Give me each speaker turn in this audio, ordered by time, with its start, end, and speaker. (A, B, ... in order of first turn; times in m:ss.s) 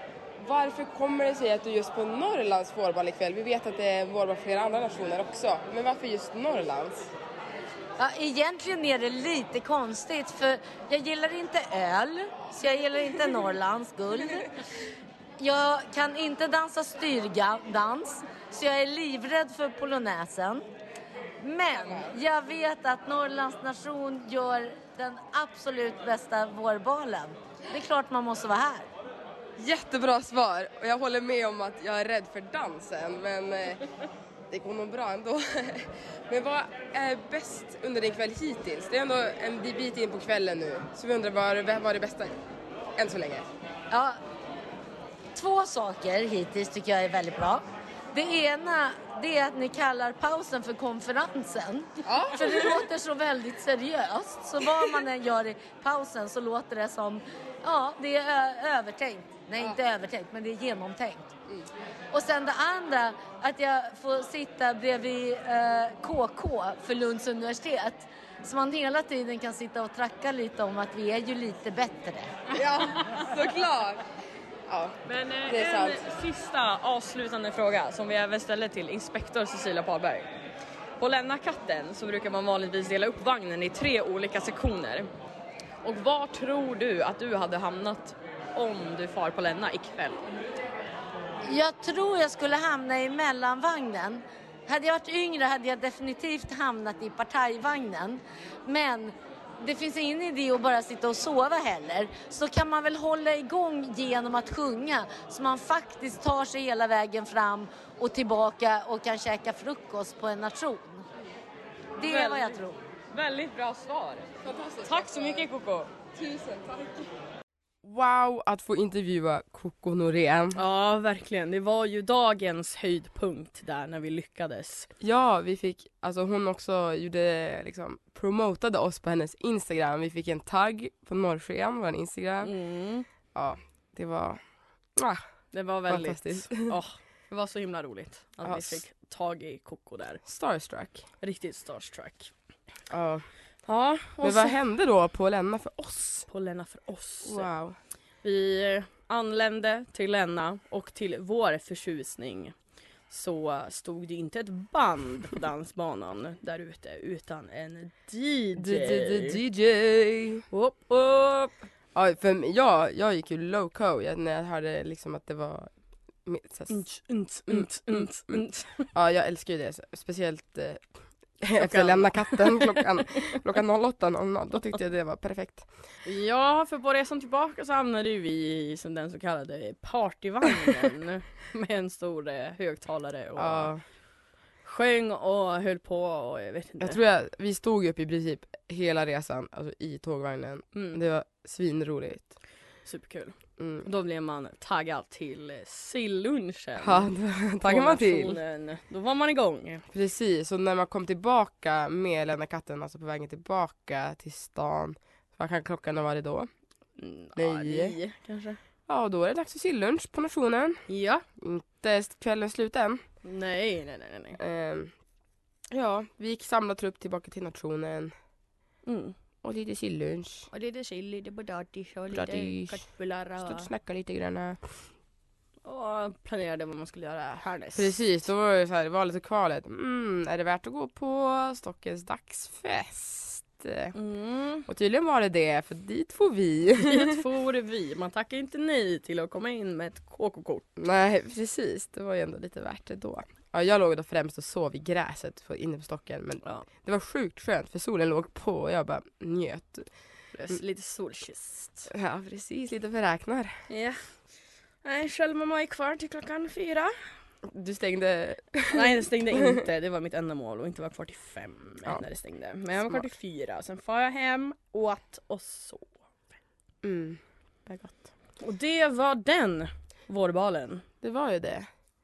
0:00.4-0:07.1 A
0:08.0-0:14.6 B
0:15.4-0:20.6 B
0:21.4-0:28.9 B
0:21.8-0:22.1 A
0:29.6-0:33.9 A
0:34.5-0:42.4 A
0:43.0-0:43.5 A
0:43.9-0:44.2 B
0:45.4-1:01.3 B
0:52.1-0:52.8 A
1:02.1-1:12.3 B
1:12.6-1:13.2 C
1:12.6-1:14.0 A
1:14.7-1:16.0 A
1:15.0-1:20.3 C
1:21.0-1:25.1 C
1:25.8-1:30.2 C
1:31.5-1:51.0 B
1:52.0-1:52.8 B
1:52.0-1:52.6 C
1:53.1-1:55.9 C
1:54.4-1:55.5 A
1:56.1-1:57.1 A
1:57.8-2:00.6 A
2:00.6-2:04.9 C
2:05.0-2:12.5 A
2:12.4-2:13.1 C
2:13.3-2:14.4 A
2:15.0-2:15.2 A
2:15.5-2:20.2 C
2:15.9-2:16.8 A
2:18.4-2:18.8 A
2:20.2-2:21.0 A
2:21.2-2:22.3 C
2:22.9-2:23.3 A
2:23.7-2:24.6 C
2:24.2-2:26.3 A
2:26.3-2:27.5 C
2:27.2-2:27.8 A
2:28.2-2:32.6 C
2:33.1-2:39.4 C
2:38.6-2:40.4 A
2:40.5-2:41.6 C
2:42.0-2:45.7 A
2:46.2-2:46.8 A
2:46.7-2:48.9 C
2:47.5-2:55.7 A
2:51.6-2:53.4 C
2:56.0-3:03.7 C
3:03.4-3:03.8 A
3:04.6-3:07.0 C
3:06.8-3:12.4 A
3:10.7-3:11.0 C
3:12.8-3:19.9 C
3:13.6-3:13.9 A
3:16.8-3:18.4 A
3:19.9-3:26.5 A
3:27.0-3:28.6 C
3:27.4-3:28.0 A
3:28.9-3:30.8 A
3:30.9-3:31.2 C
3:31.4-3:33.0 A
3:33.2-3:34.4 C
3:34.4-3:34.9 A
3:35.7-3:38.1 A
3:38.9-3:39.2 C
3:39.4-3:40.5 A
3:40.5-3:43.7 C
3:42.1-3:42.8 A
3:43.4-3:44.7 A
3:45.6-3:48.0 C
3:47.8-3:54.0 A
3:54.0-3:54.7 C
3:54.7-3:57.2 A
3:56.8-4:00.7 C
4:00.8-4:09.9 A
4:10.3-4:11.9 C
4:11.9-4:13.6 A
4:13.7-4:14.2 C
4:14.8-4:17.1 C
4:17.4-4:19.5 A
4:18.7-4:26.0 C
4:26.8-4:28.1 A
4:28.4-4:30.9 C
4:31.0-4:31.7 A